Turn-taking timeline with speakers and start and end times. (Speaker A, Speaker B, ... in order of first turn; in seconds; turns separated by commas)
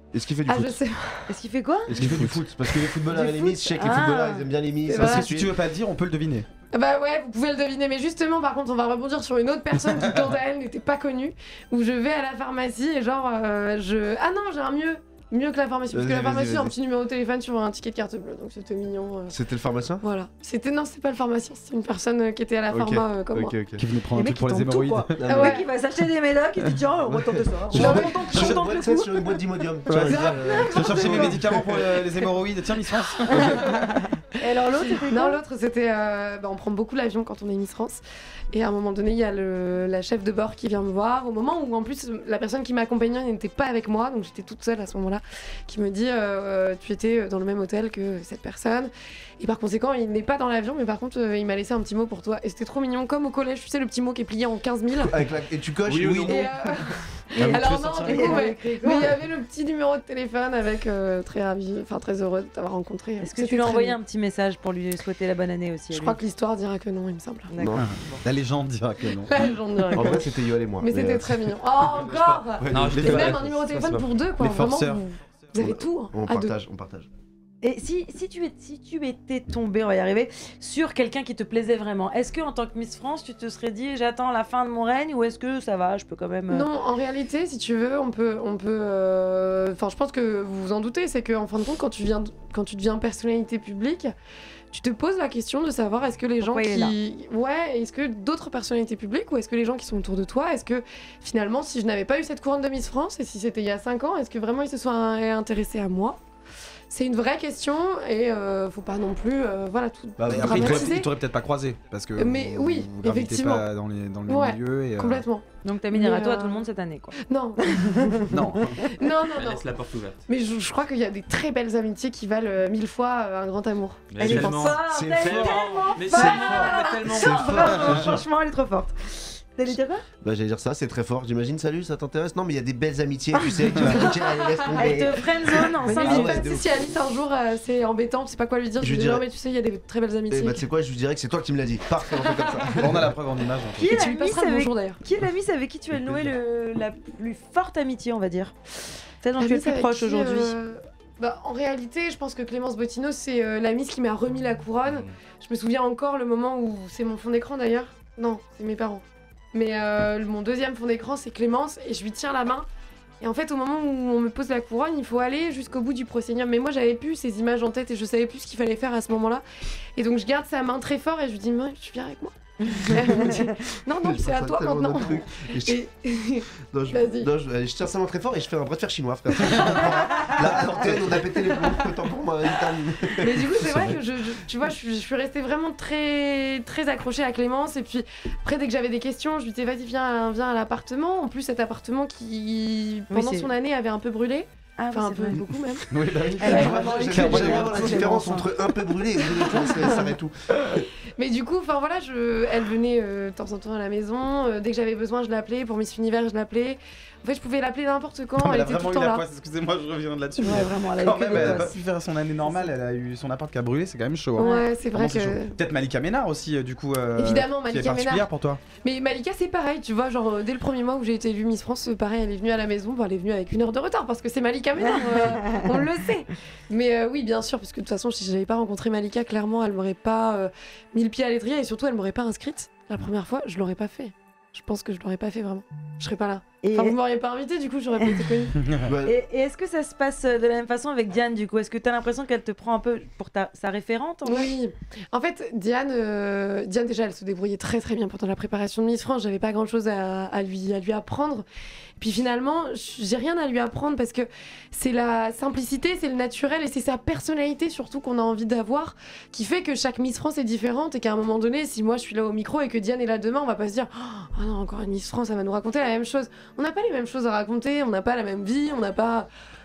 Speaker A: 0.1-0.8, Speaker B: 0.5-1.3, Speaker C: 1.3-1.9, Speaker A: 1.9-5.5, Speaker D: 1.9-2.5, Speaker B: 3.0-3.8, Speaker C: 3.1-4.5, Speaker B: 4.8-5.3, Speaker D: 4.9-6.5, Speaker B: 6.7-19.4, Speaker A: 15.9-16.7, Speaker A: 19.3-20.0, Speaker B: 20.0-23.6, Speaker A: 22.7-23.8, Speaker D: 23.8-25.3, Speaker C: 24.1-29.4, Speaker A: 25.2-25.6, Speaker B: 25.2-25.7, Speaker A: 27.0-31.6, Speaker D: 27.7-28.6, Speaker B: 27.7-28.6, Speaker D: 29.9-34.0, Speaker B: 30.1-31.5, Speaker C: 30.1-31.4, Speaker C: 33.3-33.8, Speaker C: 34.3-35.4, Speaker B: 34.7-38.0, Speaker B: 38.5-55.1, Speaker A: 55.0-57.0, Speaker D: 55.8-56.5, Speaker B: 56.3-64.0, Speaker D: 57.4-58.5, Speaker C: 57.4-59.1, Speaker C: 63.2-66.2, Speaker B: 65.9-67.5, Speaker C: 67.5-67.9, Speaker A: 67.6-67.9, Speaker D: 67.8-69.5, Speaker B: 69.2-76.5, Speaker A: 69.9-73.5, Speaker E: 72.7-74.1, Speaker D: 74.4-75.0, Speaker A: 75.6-77.1, Speaker C: 77.6-86.7, Speaker B: 86.5-94.1, Speaker B: 94.7-106.2, Speaker C: 96.4-97.0, Speaker B: 106.9-111.1, Speaker A: 110.2-111.0, Speaker D: 110.2-115.2, Speaker B: 112.2-113.7, Speaker B: 114.3-116.6, Speaker C: 115.6-118.1, Speaker B: 117.3-119.6, Speaker D: 118.3-118.8, Speaker E: 119.3-120.2, Speaker B: 120.3-124.2, Speaker E: 124.1-128.0, Speaker C: 124.2-130.0, Speaker D: 124.2-124.8, Speaker A: 124.8-128.2, Speaker A: 130.2-136.9, Speaker D: 133.7-134.0, Speaker B: 134.0-135.0, Speaker C: 134.7-136.5, Speaker B: 135.8-140.6, Speaker D: 136.0-136.5, Speaker A: 138.8-139.2, Speaker A: 140.3-143.1, Speaker B: 142.3-142.8, Speaker D: 142.7-144.0, Speaker C: 143.7-148.6, Speaker B: 143.8-145.0, Speaker C: 149.2-150.5, Speaker B: 149.4-162.7, Speaker B: 163.2-169.4, Speaker B: 170.0-177.3, Speaker A: 174.0-175.8, Speaker A: 176.6-183.9, Speaker B: 179.5-180.4, Speaker D: 179.6-181.0, Speaker B: 183.1-195.9, Speaker C: 193.1-193.5, Speaker C: 194.8-195.4, Speaker D: 195.9-198.4, Speaker C: 196.4-198.7, Speaker A: 196.4-200.8, Speaker B: 196.5-196.8, Speaker B: 199.2-200.0, Speaker C: 199.5-200.0, Speaker B: 201.2-209.2, Speaker D: 208.4-218.6, Speaker C: 210.4-211.8, Speaker B: 211.2-211.6, Speaker C: 212.4-212.7, Speaker B: 214.3-215.6, Speaker C: 214.4-214.6, Speaker B: 217.2-218.3, Speaker B: 218.8-238.6, Speaker C: 224.8-225.7, Speaker C: 236.6-236.9, Speaker D: 238.6-238.9, Speaker A: 238.8-239.1, Speaker C: 239.0-244.5, Speaker B: 244.2-251.4, Speaker B: 252.0-269.3